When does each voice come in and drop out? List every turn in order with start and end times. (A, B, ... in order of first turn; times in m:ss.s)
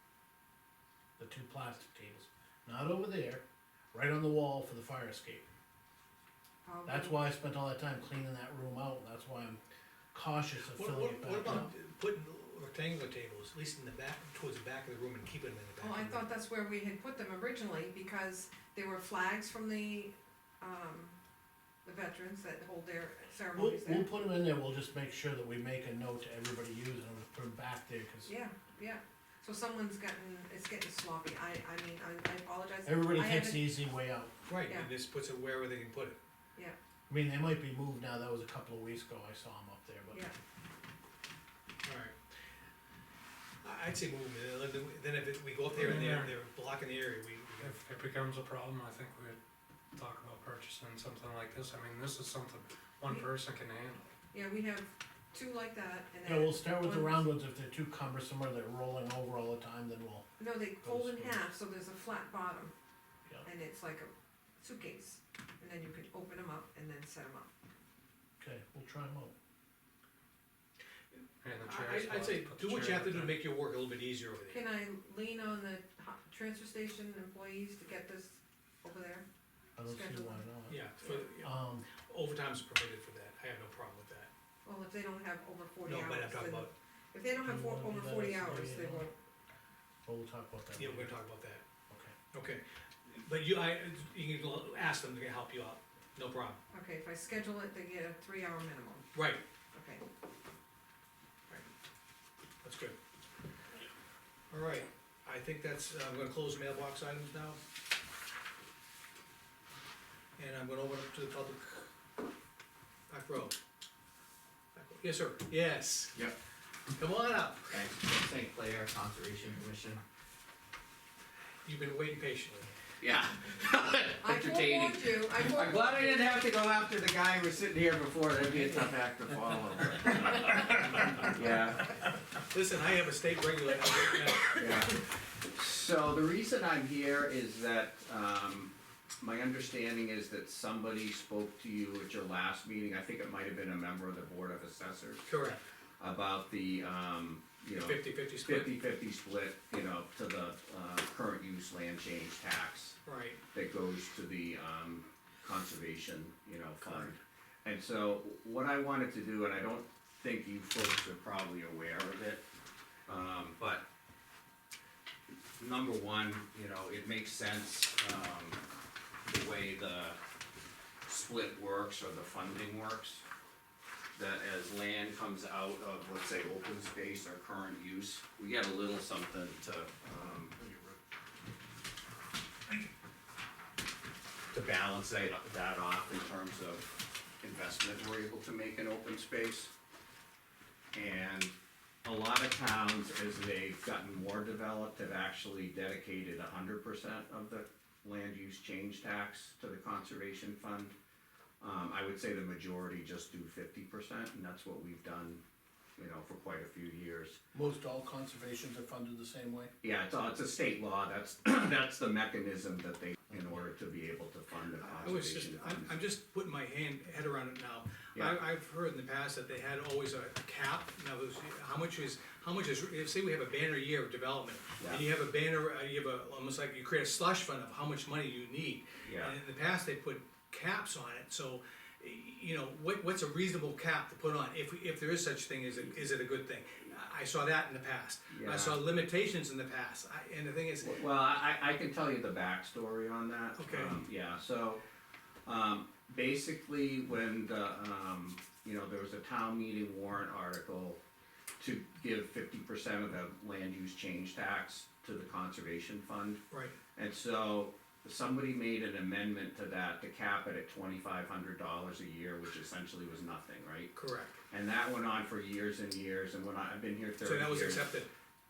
0:01.2-0:05.5 A
0:06.6-0:07.2 B
0:06.8-0:09.6 A
0:10.1-0:11.7 A
0:10.7-0:16.2 C
0:15.8-0:21.2 B
0:21.8-0:24.1 B
0:23.5-0:28.3 A
0:28.2-0:33.7 B
0:32.8-0:34.3 A
0:34.4-0:36.2 C
0:37.1-0:40.2 A
0:41.8-0:42.2 C
0:43.6-0:47.8 C
0:45.8-0:46.3 D
0:47.6-0:49.4 D
0:49.9-0:54.1 D
0:54.3-0:57.2 B
0:56.2-1:00.3 A
1:00.4-1:02.7 B
1:00.8-1:01.4 A
1:03.4-1:07.5 B
1:08.4-1:09.3 A
1:11.4-1:13.4 D
1:11.6-1:14.6 C
1:14.5-1:19.2 B
1:19.8-1:21.9 A
1:19.8-1:20.4 B
1:20.7-1:24.3 C
1:24.6-1:29.1 B
1:25.8-1:26.7 C
1:27.4-1:29.1 A
1:30.0-1:31.1 A
1:30.8-1:31.6 C
1:31.9-1:32.1 A
1:32.3-1:36.6 C
1:36.7-1:39.0 B
1:39.1-1:39.4 C
1:39.7-1:40.0 B
1:42.6-1:43.0 C
1:44.5-1:47.6 C
1:50.4-1:51.9 C
1:53.1-1:53.6 C
1:54.7-1:56.2 C
1:57.0-1:57.8 C
1:57.7-2:00.0 E
2:01.6-2:02.7 C
2:03.0-2:11.9 E
2:04.2-2:06.3 B
2:12.5-2:15.0 C
2:14.5-2:25.3 E
2:25.2-2:25.6 C
2:26.0-2:33.0 E
2:27.8-2:28.8 C
2:33.0-2:33.4 C
2:33.5-2:42.4 E
2:36.8-2:37.1 C
2:43.1-2:43.8 E
2:45.6-2:48.6 E
2:49.3-2:50.2 E
2:51.0-2:53.2 E
2:54.1-3:00.8 E
3:04.5-3:09.7 E
3:10.9-3:20.9 E
3:21.6-3:25.4 E
3:26.0-3:27.4 E
3:27.5-3:29.7 A
3:29.8-3:36.0 E
3:34.8-4:01.0 C
3:44.8-3:45.0 E
3:49.0-3:49.4 E
3:58.3-3:58.8 E
4:00.8-4:04.8 E
4:03.6-4:04.0 C
4:05.4-4:11.0 E
4:11.6-4:16.4 E
4:16.5-4:16.8 C
4:17.0-4:23.9 E
4:23.9-4:24.4 C
4:24.5-4:27.9 E
4:27.2-4:28.1 C